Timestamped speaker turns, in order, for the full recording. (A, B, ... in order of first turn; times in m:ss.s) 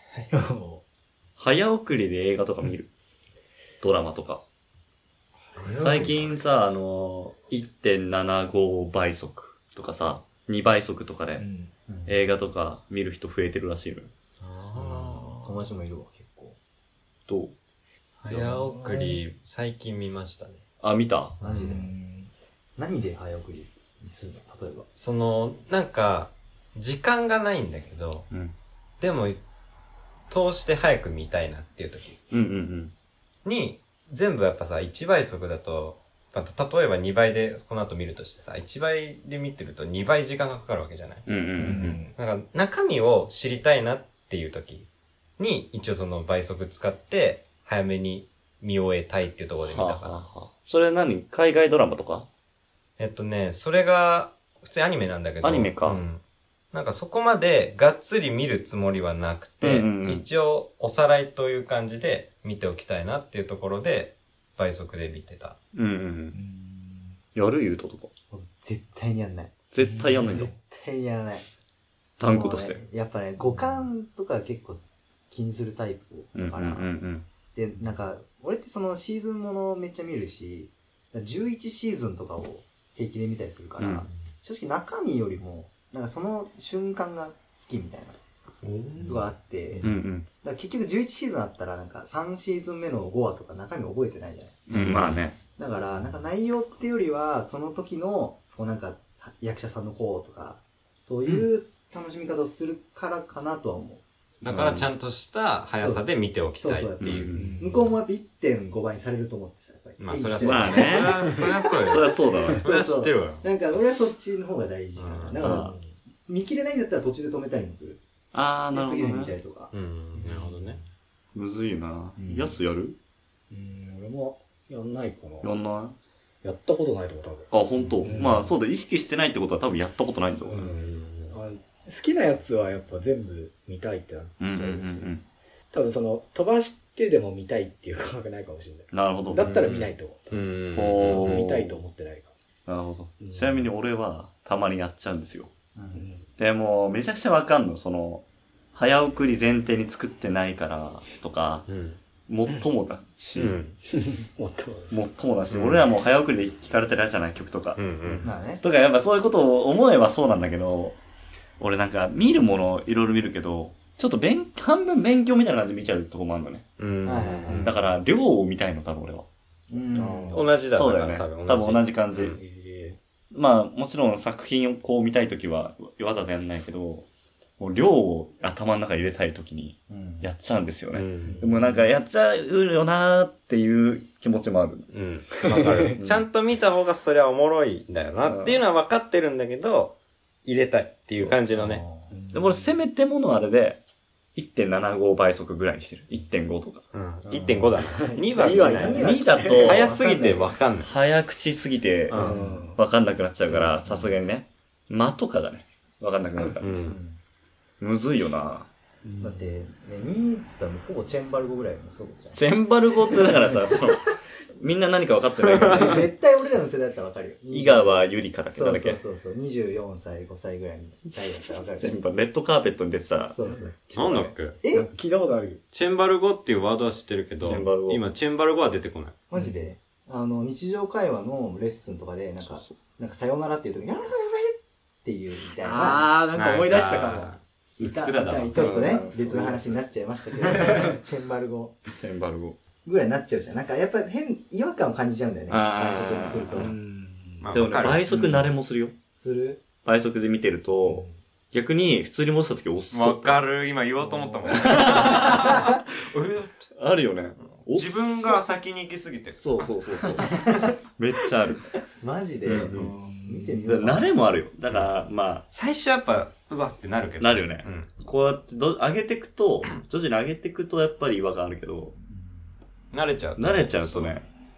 0:00.3-0:00.8 A
0:01.4-0:02.9 B
0:03.8-0:04.4 B
0:05.5-0:06.4 C
0:05.8-0:11.5 B
0:11.4-0:11.7 A
0:11.9-0:12.1 D
0:12.1-0:14.1 B
0:14.4-0:15.5 C
0:14.7-0:16.6 D
0:17.3-0:17.5 B
0:18.2-0:20.6 C
0:18.3-0:19.2 A
0:20.8-0:21.4 B
0:21.4-0:21.9 D
0:21.4-0:21.7 C
0:21.7-0:22.3 A
0:22.8-0:24.9 D
0:25.0-0:28.3 C
0:29.0-0:29.4 C
0:30.3-0:32.2 C
0:32.3-0:32.9 B
0:33.4-0:41.3 C
0:41.3-0:42.0 B
0:41.6-0:42.1 A
0:42.2-0:44.9 C
0:45.4-0:50.2 C
0:49.6-0:52.3 B
0:53.0-0:56.2 C
0:55.4-0:56.0 B
0:56.7-1:05.6 C
0:59.6-1:00.2 B
1:05.8-1:06.4 B
1:06.3-1:07.2 A
1:07.4-1:08.1 B
1:08.3-1:09.6 D
1:09.7-1:10.5 B
1:09.8-1:10.2 A
1:10.1-1:11.5 D
1:12.2-1:12.8 B
1:12.2-1:16.9 D
1:16.4-1:17.3 B
1:17.6-1:28.2 D
1:23.8-1:24.0 B
1:28.6-1:30.0 C
1:29.0-1:29.9 D
1:29.8-1:30.3 B
1:30.4-1:34.6 D
1:34.7-1:35.4 B
1:34.7-1:35.2 C
1:35.6-1:44.0 D
1:44.4-1:47.3 C
1:44.5-1:44.9 B
1:45.7-1:55.7 D
1:47.0-1:47.4 B
1:47.4-1:47.9 A
1:50.0-1:53.4 C
1:50.4-1:51.2 B
1:51.8-1:52.6 B
1:55.0-1:55.4 C
1:55.4-1:55.7 B
1:55.4-1:55.9 A
1:56.3-1:58.0 D
1:58.3-1:59.3 B
1:58.7-1:59.7 D
1:59.7-2:00.8 C
2:00.2-2:00.6 A
2:01.3-2:03.0 B
2:02.2-2:02.5 A
2:03.5-2:05.5 A
2:05.4-2:06.0 B
2:06.4-2:07.5 A
2:07.5-2:10.7 B
2:08.0-2:08.6 A
2:10.5-2:15.1 A
2:11.0-2:11.4 C
2:14.4-2:15.2 B
2:15.7-2:20.4 A
2:18.9-2:19.7 B
2:19.4-2:21.4 C
2:20.8-2:21.8 B
2:21.1-2:22.3 A
2:22.7-2:25.5 B
2:23.2-2:23.7 A
2:25.8-2:26.1 D
2:25.9-2:26.2 A
2:26.4-2:31.7 B
2:31.7-2:32.0 C
2:32.3-2:33.6 B
2:33.4-2:33.8 C
2:34.0-2:35.0 A
2:34.9-2:41.0 B
2:35.5-2:35.8 C
2:37.8-2:38.3 C
2:38.2-2:38.6 D
2:41.6-2:46.7 B
2:46.8-2:47.8 C
2:47.0-2:47.6 D
2:47.5-2:49.3 B
2:47.5-2:47.8 A
2:49.7-2:50.4 D
2:49.9-2:50.5 A
2:50.3-2:52.4 C
2:50.7-2:52.4 B
2:52.3-2:53.0 A
2:53.3-2:57.1 B
2:57.6-3:04.9 B
2:59.9-3:00.3 D
3:00.9-3:01.5 C
3:01.2-3:01.9 A
3:04.9-3:11.8 C
3:05.9-3:06.2 B
3:08.3-3:08.6 B
3:11.5-3:12.1 D
3:12.1-3:12.7 A
3:12.3-3:13.8 B
3:14.4-3:16.8 B
3:16.9-3:20.9 C
3:17.3-3:17.8 D
3:17.8-3:19.7 A
3:18.5-3:20.5 D
3:18.9-3:19.9 B
3:20.8-3:26.9 B
3:22.1-3:22.6 C
3:22.2-3:22.8 A
3:23.5-3:23.8 C
3:26.6-3:27.0 C
3:26.9-3:27.2 D
3:27.8-3:28.7 B
3:29.0-3:29.5 A
3:29.2-3:32.4 D
3:32.3-3:36.1 B
3:33.2-3:33.9 D
3:35.7-3:42.0 D
3:37.5-3:39.0 B
3:41.8-3:43.4 B
3:43.3-3:44.9 D
3:43.9-3:44.3 B
3:43.9-3:44.6 C
3:44.7-3:45.6 A
3:45.7-3:49.2 C
3:47.4-3:48.0 B
3:49.3-3:56.1 D
3:55.6-3:59.8 A
3:56.3-3:58.6 C
3:58.5-4:01.8 D
3:58.6-3:59.0 B
4:00.5-4:00.9 A
4:00.5-4:00.8 B
4:01.9-4:02.6 B
4:02.8-4:06.8 D
4:05.5-4:06.7 B
4:06.6-4:07.5 A
4:07.4-4:08.1 C
4:07.5-4:08.9 B
4:09.2-4:09.6 D
4:09.8-4:13.5 B
4:10.8-4:11.1 A
4:12.9-4:16.7 C
4:14.1-4:14.6 A
4:14.5-4:15.8 B
4:16.8-4:18.4 B
4:17.6-4:20.4 C
4:19.4-4:21.7 B
4:20.3-4:20.7 D
4:22.0-4:24.2 D
4:22.5-4:22.9 B
4:22.7-4:23.6 A
4:23.6-4:25.5 B
4:25.5-4:27.9 C
4:27.2-4:31.9 B
4:32.9-4:34.2 C
4:33.4-4:34.3 B